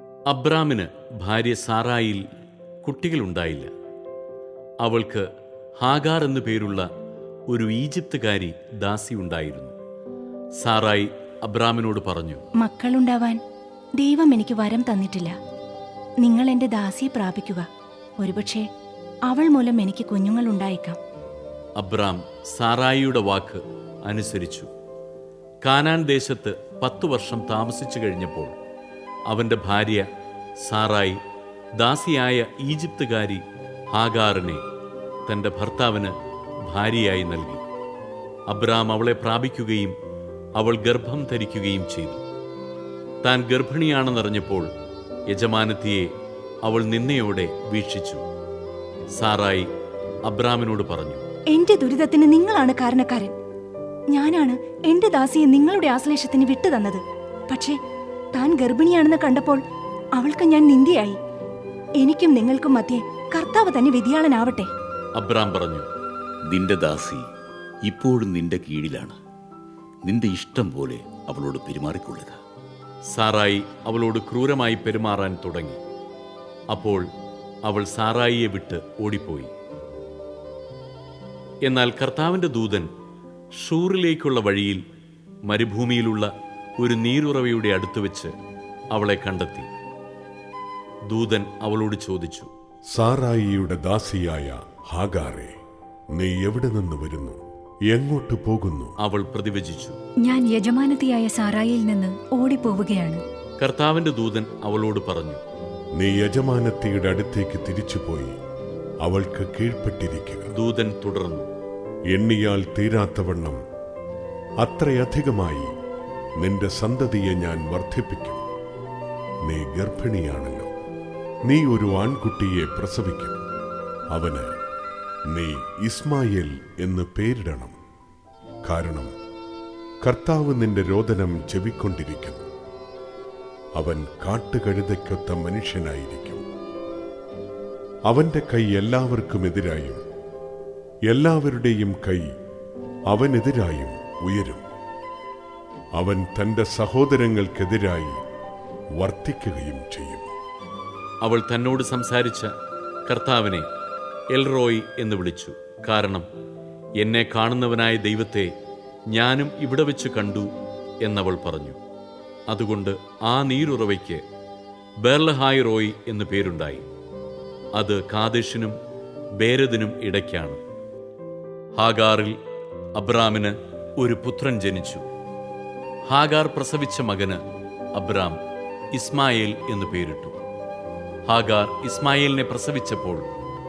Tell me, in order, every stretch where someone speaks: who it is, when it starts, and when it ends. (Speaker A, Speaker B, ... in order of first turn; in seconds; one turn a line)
Speaker A: 0.3-2.2
Speaker A: 2.8-3.7
Speaker A: 4.8-5.2
Speaker A: 5.8-6.9
Speaker A: 7.5-9.7
Speaker A: 10.6-12.4
Speaker B: 12.6-13.4
Speaker B: 14.0-15.3
Speaker B: 16.2-17.6
Speaker B: 18.2-18.7
Speaker B: 19.2-21.0
Speaker A: 21.8-24.7
Speaker A: 25.6-28.5
Speaker A: 29.3-30.1
Speaker A: 30.6-31.2
Speaker A: 31.8-34.6
Speaker A: 35.3-36.1
Speaker A: 36.6-37.6
Speaker A: 38.5-39.9
Speaker A: 40.6-42.2
Speaker A: 43.2-44.7
Speaker A: 45.3-46.1
Speaker A: 46.6-48.2
Speaker A: 49.1-49.7
Speaker A: 50.2-51.2
Speaker B: 51.5-53.3
Speaker B: 54.1-57.8
Speaker B: 58.3-59.6
Speaker B: 60.1-61.2
Speaker B: 62.0-64.7
Speaker A: 65.2-65.9
Speaker C: 66.5-67.2
Speaker C: 67.8-69.2
Speaker C: 70.0-72.4
Speaker A: 73.1-75.8
Speaker A: 76.7-77.0
Speaker A: 77.6-79.5
Speaker A: 81.6-82.9
Speaker A: 83.6-84.8
Speaker A: 85.5-88.3
Speaker A: 88.9-89.7
Speaker A: 91.1-92.5
Speaker D: 92.9-95.5
Speaker D: 96.1-97.4
Speaker D: 97.9-98.9
Speaker A: 99.0-100.0
Speaker E: 100.2-103.2
Speaker A: 103.6-105.4
Speaker D: 105.9-108.3
Speaker D: 109.0-110.5
Speaker A: 110.5-111.5
Speaker D: 112.1-113.6
Speaker D: 114.6-115.7
Speaker D: 116.4-118.4
Speaker D: 119.4-120.7
Speaker D: 121.5-123.4
Speaker D: 124.1-124.5
Speaker D: 125.3-127.8
Speaker D: 128.6-129.1
Speaker D: 130.0-132.4
Speaker D: 133.8-136.4
Speaker D: 138.1-140.0
Speaker D: 141.1-142.3
Speaker D: 143.1-144.7
Speaker D: 145.9-148.2
Speaker D: 149.0-150.3
Speaker A: 151.2-152.5
Speaker A: 153.1-153.7
Speaker A: 154.3-156.2
Speaker A: 157.0-158.5
Speaker A: 159.1-160.5
Speaker A: 161.0-161.8
Speaker A: 162.5-164.2
Speaker A: 165.0-166.8
Speaker A: 167.7-168.8
Speaker A: 169.4-170.6
Speaker A: 171.8-172.4
Speaker A: 172.9-175.0
Speaker A: 176.1-177.4
Speaker A: 177.9-178.4
Speaker A: 178.9-180.3
Speaker A: 181.3-183.3